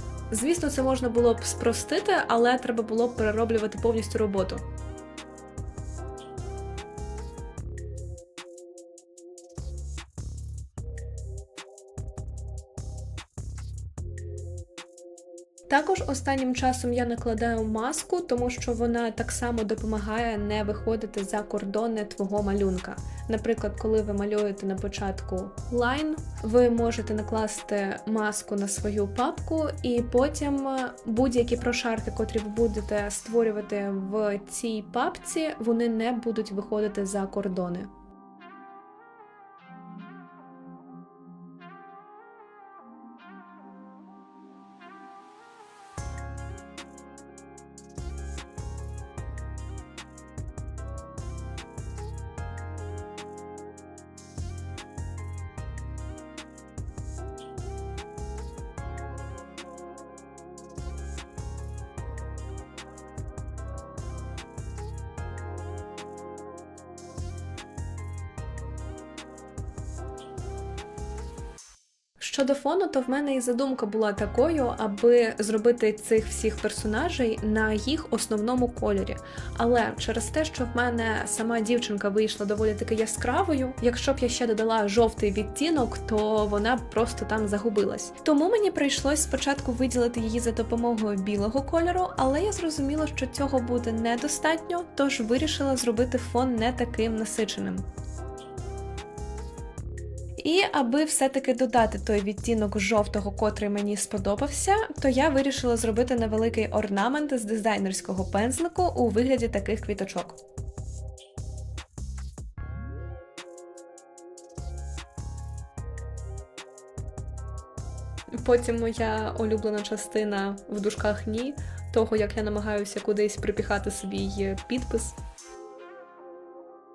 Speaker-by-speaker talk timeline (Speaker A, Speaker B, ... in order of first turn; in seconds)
Speaker A: 0.3-4.6, 15.7-37.9, 72.2-97.9, 100.4-110.4, 118.4-125.2